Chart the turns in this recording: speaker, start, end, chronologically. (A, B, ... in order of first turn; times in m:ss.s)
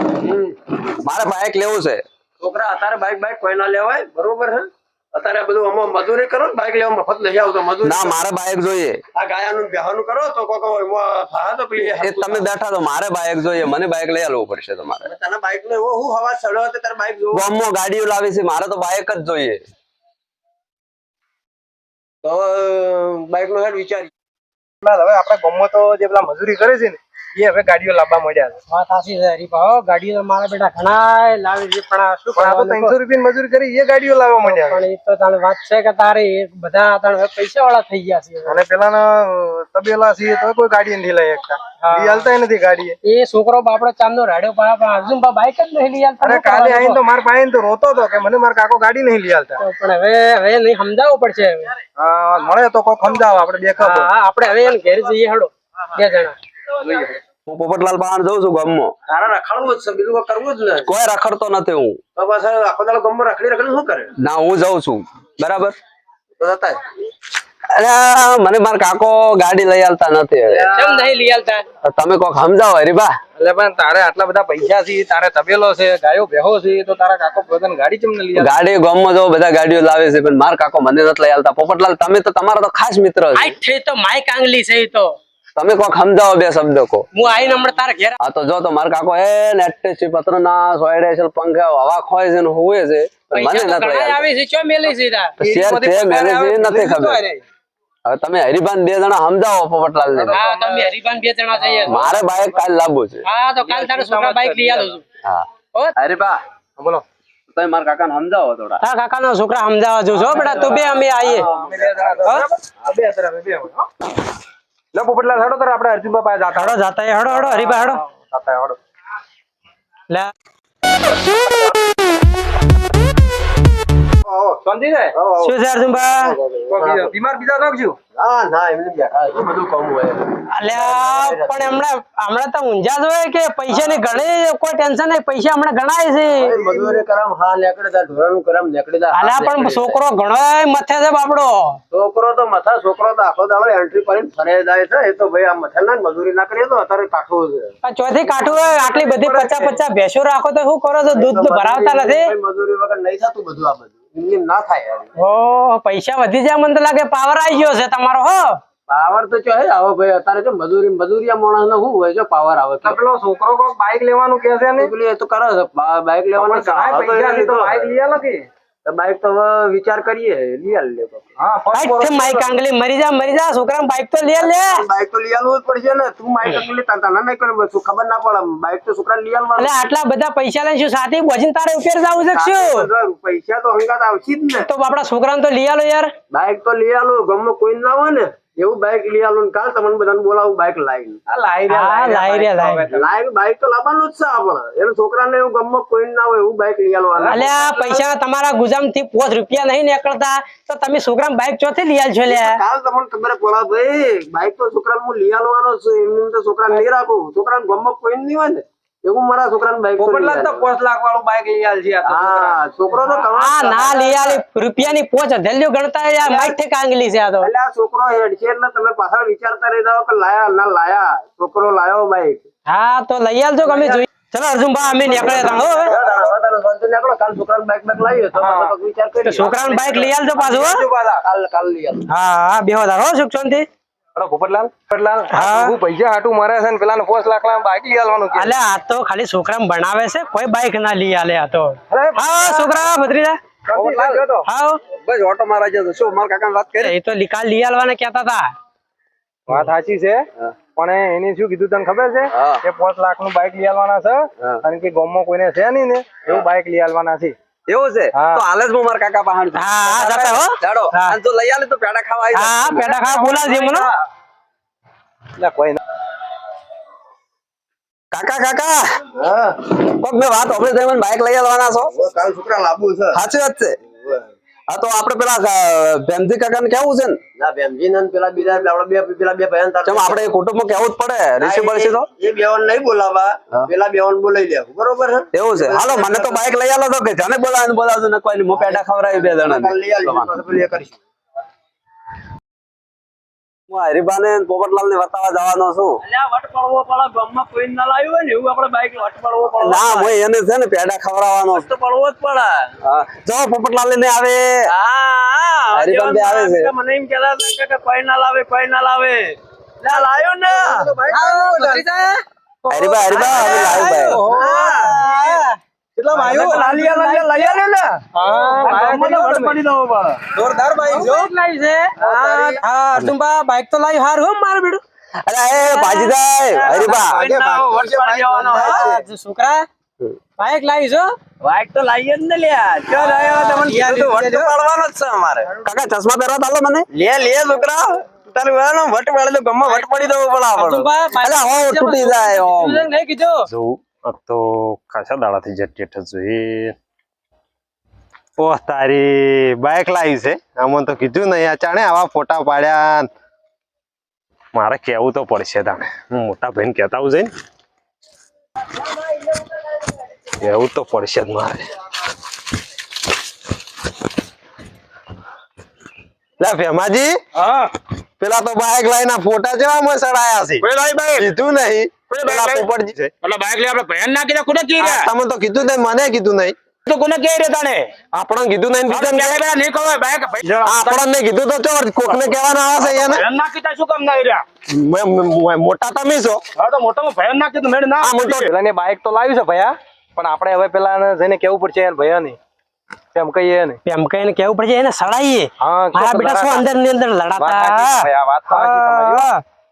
0:00.1-0:00.6 A
0:01.0-0:02.0 B
0:02.4-0:08.3 A
0:07.8-0:09.0 B
0:09.2-0:12.5 A
0:11.8-0:15.1 B
0:15.0-0:17.5 A
0:17.3-0:19.6 B
0:22.2-0:24.1 A
0:24.8-0:28.6 C
0:28.7-0:33.0 D
0:32.3-0:34.8 C
0:34.4-0:38.6 D
0:38.5-0:42.9 C
0:41.8-0:42.2 D
0:43.0-0:47.0 D
0:46.2-0:49.6 C
0:49.6-0:51.7 D
0:52.0-0:54.1 C
0:53.8-0:56.4 D
0:56.8-0:57.1 A
0:57.5-0:58.9 B
0:59.1-1:00.9 A
1:00.8-1:02.0 B
1:02.2-1:04.1 A
1:04.2-1:05.8 B
1:06.4-1:06.8 A
1:07.8-1:10.6 B
1:10.5-1:11.1 A
1:10.7-1:11.6 D
1:11.8-1:13.2 B
1:13.4-1:18.5 C
1:18.4-1:23.6 B
1:23.4-1:25.2 D
1:25.6-1:27.0 B
1:27.1-1:28.2 D
1:28.2-1:34.3 B
1:33.3-1:35.4 D
1:35.4-1:37.2 B
1:35.4-1:37.4 C
1:38.0-1:40.5 B
1:40.3-1:42.1 D
1:40.5-1:40.9 C
1:41.6-1:42.1 C
1:41.9-1:43.2 B
1:43.2-1:45.0 D
1:43.6-1:44.9 C
1:46.0-1:46.4 B
1:46.8-1:47.0 C
1:47.5-1:48.8 B
1:48.8-1:51.5 D
1:50.3-1:52.3 A
1:50.3-1:50.7 C
1:51.5-1:53.9 C
1:54.9-1:56.7 C
1:56.5-1:58.0 D
1:57.3-1:58.8 C
2:04.2-2:04.6 A
2:04.6-2:05.2 C
2:05.1-2:05.6 A
2:05.4-2:06.4 D
2:06.1-2:07.1 A
2:06.7-2:08.0 C
2:08.2-2:11.8 A
2:10.5-2:16.6 D
2:13.7-2:14.2 A
2:16.3-2:20.0 A
2:19.1-2:21.8 D
2:21.9-2:29.8 A
2:27.8-2:32.3 D
2:31.1-2:35.1 A
2:35.2-2:38.6 D
2:38.9-2:43.0 A
2:42.8-2:44.9 C
2:44.8-2:47.9 A
2:46.3-2:48.5 C
2:48.8-2:51.3 A
2:51.4-2:52.5 C
2:51.7-2:54.8 D
2:54.4-2:59.7 A
2:59.6-3:02.8 D
3:02.2-3:04.7 A
3:04.6-3:06.1 D
3:06.3-3:11.2 A
3:11.3-3:12.9 C
3:11.7-3:12.8 D
3:12.9-3:17.5 A
3:17.3-3:22.6 D
3:17.6-3:18.0 C
3:22.3-3:30.7 A
3:32.0-3:34.4 A
3:33.4-3:37.5 D
3:36.2-3:36.6 A
3:37.4-3:42.5 A
3:42.7-3:45.9 D
3:43.6-3:44.0 A
3:45.2-3:52.0 A
3:48.4-3:48.7 C
3:49.2-3:50.8 D
3:50.4-3:51.2 C
3:52.1-3:53.7 D
3:54.2-3:58.5 C
3:55.3-3:55.7 D
3:58.3-4:03.4 D
4:01.9-4:02.8 C
4:03.7-4:04.5 C
4:03.8-4:04.1 B
4:04.4-4:04.8 D
4:05.0-4:06.9 B
4:06.8-4:08.5 D
4:09.5-4:10.2 C
4:10.8-4:17.4 C
4:12.4-4:12.6 B
4:17.7-4:22.9 B
4:18.1-4:18.4 C
4:19.6-4:21.2 D
4:22.3-4:23.9 D
4:22.8-4:23.9 C
4:25.4-4:25.8 C
4:28.1-4:29.0 B
4:29.1-4:29.6 A
4:29.8-4:31.9 B
4:31.9-4:33.2 A
4:33.1-4:33.8 B
4:33.9-4:34.3 A
4:34.7-4:37.2 B
4:37.4-4:40.3 A
4:39.8-4:42.1 B
4:41.4-4:46.6 A
4:45.3-4:50.3 B
4:48.5-4:51.0 A
4:53.7-4:56.0 B
4:56.0-5:00.2 A
4:59.6-5:01.7 B
5:01.5-5:02.8 A
5:02.8-5:04.4 B
5:04.7-5:11.8 A
5:05.7-5:06.7 B
5:11.1-5:12.2 D
5:12.7-5:14.2 B
5:13.1-5:15.4 A
5:13.1-5:14.1 D
5:13.7-5:14.9 C
5:14.7-5:15.5 D
5:16.0-5:16.6 C
5:16.1-5:18.0 A
5:16.3-5:17.2 D
5:18.1-5:19.6 C
5:18.7-5:20.3 E
5:20.4-5:21.3 C
5:20.8-5:24.8 D
5:22.0-5:22.6 A
5:25.2-5:27.2 B
5:25.5-5:26.9 D
5:26.6-5:29.0 A
5:26.7-5:29.0 F
5:28.5-5:29.7 D
5:30.4-5:31.2 D
5:31.4-5:35.5 A
5:32.9-5:34.5 D
5:35.6-5:36.9 B
5:36.9-5:40.9 A
5:39.7-5:43.5 D
5:41.2-5:42.9 B
5:43.5-5:46.7 F
5:48.4-5:53.1 F
5:54.6-5:57.3 F
6:00.4-6:01.6 F
6:06.4-6:07.2 F
6:07.4-6:07.7 E
6:08.2-6:10.6 F
6:10.6-6:11.3 E
6:11.2-6:13.1 F
6:12.1-6:12.7 E
6:13.2-6:15.1 E
6:14.8-6:16.6 F
6:16.9-6:17.9 E
6:18.1-6:19.5 F
6:18.9-6:21.0 E
6:20.6-6:23.2 F
6:22.0-6:24.4 E
6:24.7-6:26.4 F
6:26.6-6:28.5 E
6:28.0-6:28.5 F
6:28.5-6:32.4 C
6:33.1-6:33.8 C
6:33.9-6:39.4 D
6:35.6-6:36.7 C
6:37.4-6:39.3 C